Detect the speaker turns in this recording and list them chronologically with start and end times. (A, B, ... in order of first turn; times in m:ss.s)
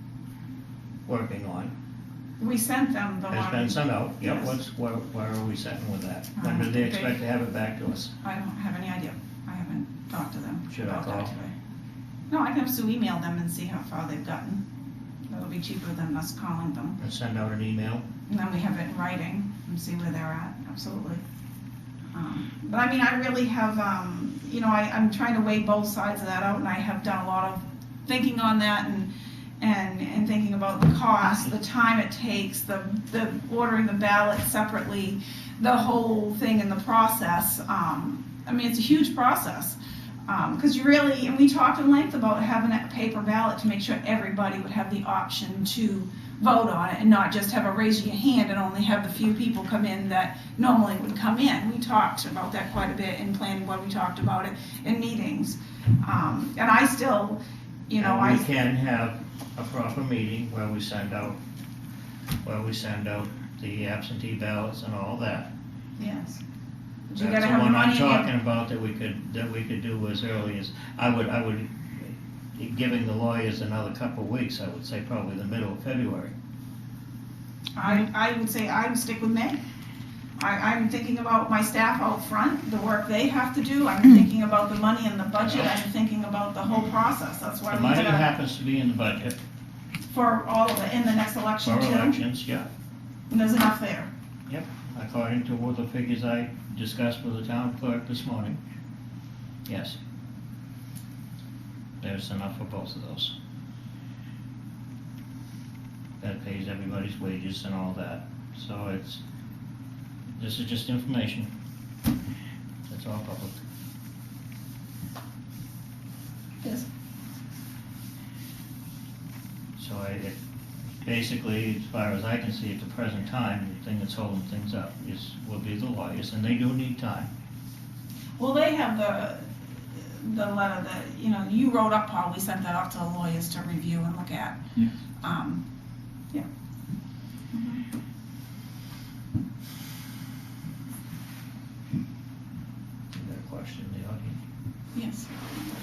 0:01.1-0:01.7 A
0:02.4-0:04.6 B
0:03.3-0:08.1 A
0:06.4-0:07.2 B
0:08.2-0:11.5 B
0:10.7-0:11.3 A
0:12.3-0:14.6 B
0:15.3-0:17.0 B
0:17.0-0:18.0 A
0:18.3-0:21.2 B
0:22.1-0:58.5 B
0:31.2-0:31.5 A
0:58.0-1:01.4 A
1:02.4-1:05.5 A
1:06.0-1:06.4 B
1:07.1-1:08.3 B
1:07.2-1:16.3 A
1:17.8-1:19.6 B
1:20.4-1:28.3 B
1:25.4-1:25.8 A
1:27.7-1:29.4 A
1:30.1-1:32.2 B
1:31.6-1:32.7 A
1:33.3-1:34.1 B
1:34.5-1:38.6 A
1:39.7-1:40.0 A
1:42.0-1:43.3 A
1:46.2-1:49.2 A
1:50.4-1:51.5 A
1:52.9-1:53.6 A
1:59.8-2:00.4 A
2:01.0-2:07.3 A
2:08.4-2:09.4 B
2:10.1-2:14.6 B
2:15.2-2:15.6 B
2:17.5-2:17.8 B
2:23.1-2:24.4 A
2:25.0-2:25.7 B